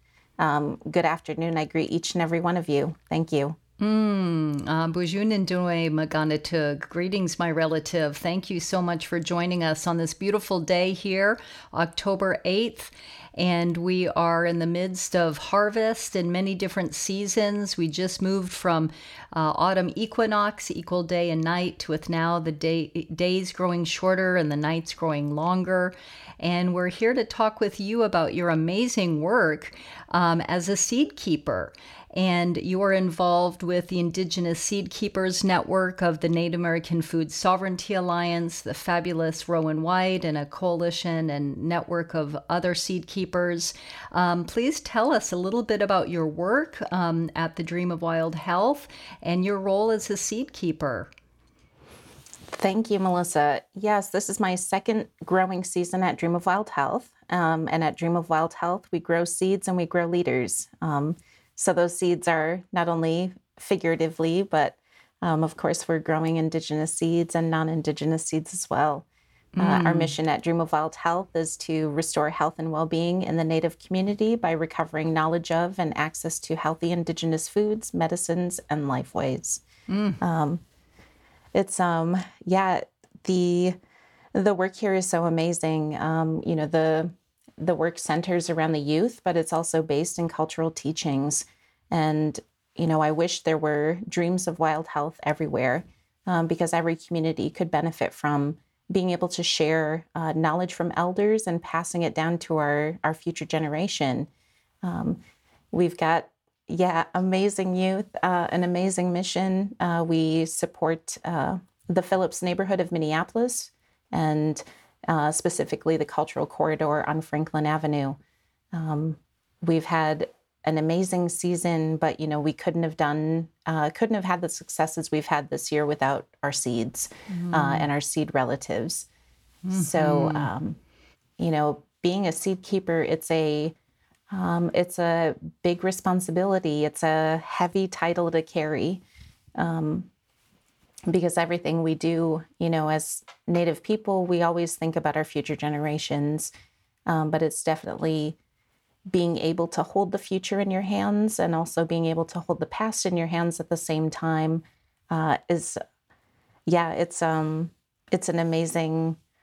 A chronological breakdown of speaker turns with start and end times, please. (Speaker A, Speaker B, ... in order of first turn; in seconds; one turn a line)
Speaker A: 0.4-3.6
Speaker B: 3.8-51.1
Speaker A: 52.5-69.0
Speaker B: 69.5-70.1
Speaker A: 69.6-79.6
Speaker B: 79.9-80.2
Speaker A: 80.2-80.6
Speaker A: 81.5-83.8
Speaker A: 84.3-104.3
Speaker A: 104.8-105.2
Speaker A: 105.7-118.2
Speaker A: 118.7-129.1
Speaker B: 127.3-127.9
Speaker B: 129.6-130.5
Speaker A: 129.7-130.8
Speaker A: 131.4-133.7
Speaker A: 134.3-139.0
Speaker A: 139.6-140.1
Speaker A: 141.1-146.5
Speaker A: 147.1-148.4
Speaker A: 149.1-155.8
Speaker A: 156.7-159.2